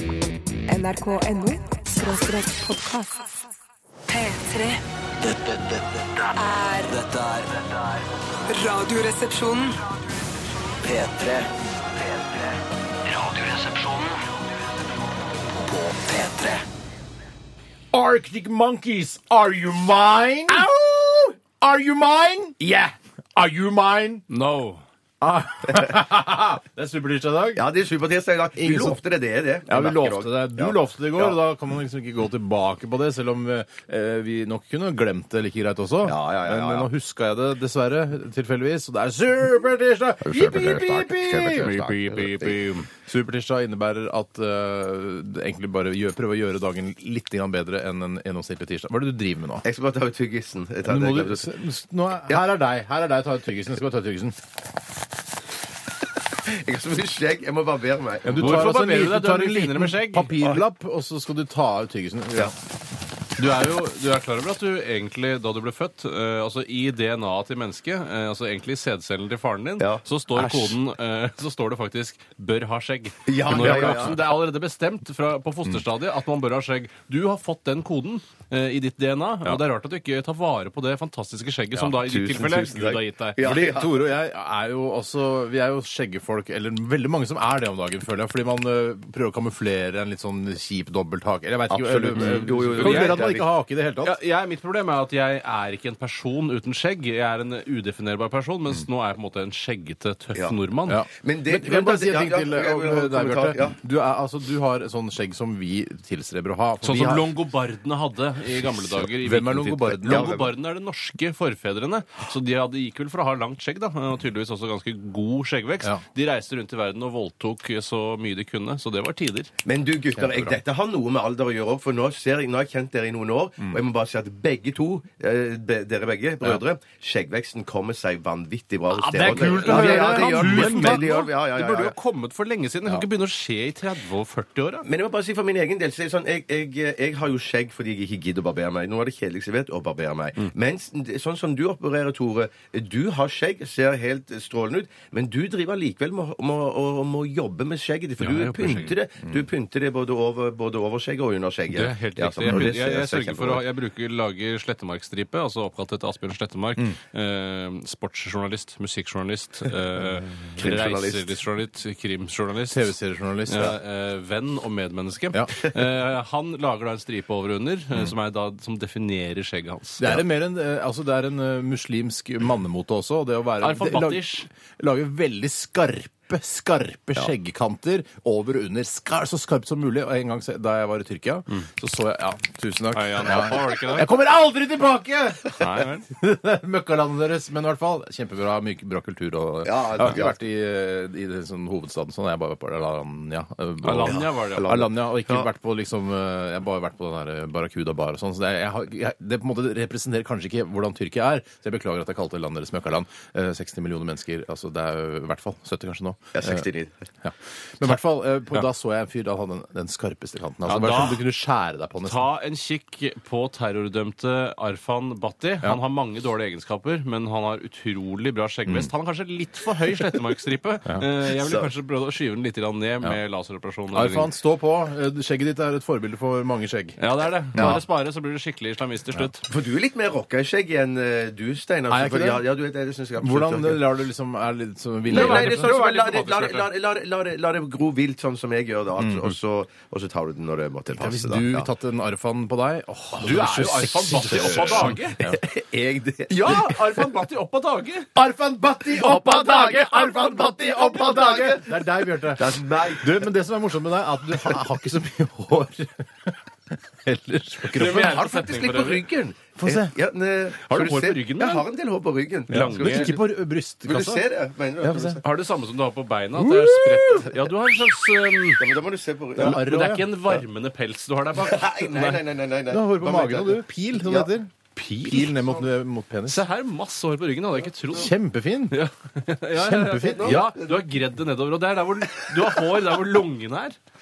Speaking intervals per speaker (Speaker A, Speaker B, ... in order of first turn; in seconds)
Speaker A: 0.7-3.2, 4.1-4.8, 6.3-7.0, 8.5-9.8
Speaker B: 5.2-5.8, 6.9-7.7, 10.8-11.5, 13.1-14.1, 15.5-16.6
Speaker C: 17.9-22.6, 23.3-24.2, 25.2-27.6, 28.6-29.0, 29.7-41.8, 43.0-49.6, 50.8-54.4, 58.2-62.5, 70.3-70.8, 73.5-74.2, 81.7-82.0, 83.4-94.2, 100.9-107.3, 108.9-110.4, 120.2-120.6, 129.1-131.1, 152.4-152.7, 162.7-163.7, 170.0-206.6, 207.2-212.3, 223.9-227.0, 227.5-227.8, 231.9-232.4, 233.2-235.7, 239.0-239.3, 240.9-245.4, 248.1-258.3, 259.6-259.9, 262.5-264.2, 264.8-265.2, 266.4-267.3, 269.4-270.1, 272.7-276.4, 277.9-278.8, 279.6-280.5
Speaker D: 22.6-22.9, 27.6-31.4, 36.0-36.9, 40.2-42.3, 49.6-51.5, 56.5-58.6, 73.2-74.2, 82.0-84.0, 91.7-93.4, 101.1-103.8, 110.1-110.5, 119.6-131.9, 134.8-153.6, 160.6-161.3, 189.6-190.3, 194.0-195.5, 206.3-207.1, 221.4-221.7, 227.5-227.8, 229.5-233.8, 235.1-241.7, 244.3-246.8, 248.9-253.2, 257.7-263.2, 263.8-265.2, 268.6-269.6, 271.4-274.3, 280.0-280.8
Speaker E: 24.3-24.8, 41.6-42.9, 58.4-60.3, 63.4-83.4, 92.2-93.3, 94.0-101.0, 106.8-119.5, 128.9-134.8, 148.2-148.9, 151.7-162.9, 163.5-170.2, 173.6-174.5, 182.9-184.1, 185.6-186.1, 193.8-194.7, 210.6-211.3, 212.0-224.3, 227.0-229.5, 235.1-236.7, 243.2-245.2, 246.3-248.1, 249.2-249.8, 257.7-259.0, 260.6-261.6, 262.5-263.2, 265.2-268.6, 269.4-272.2, 274.8-275.3, 276.3-278.1, 278.7-283.8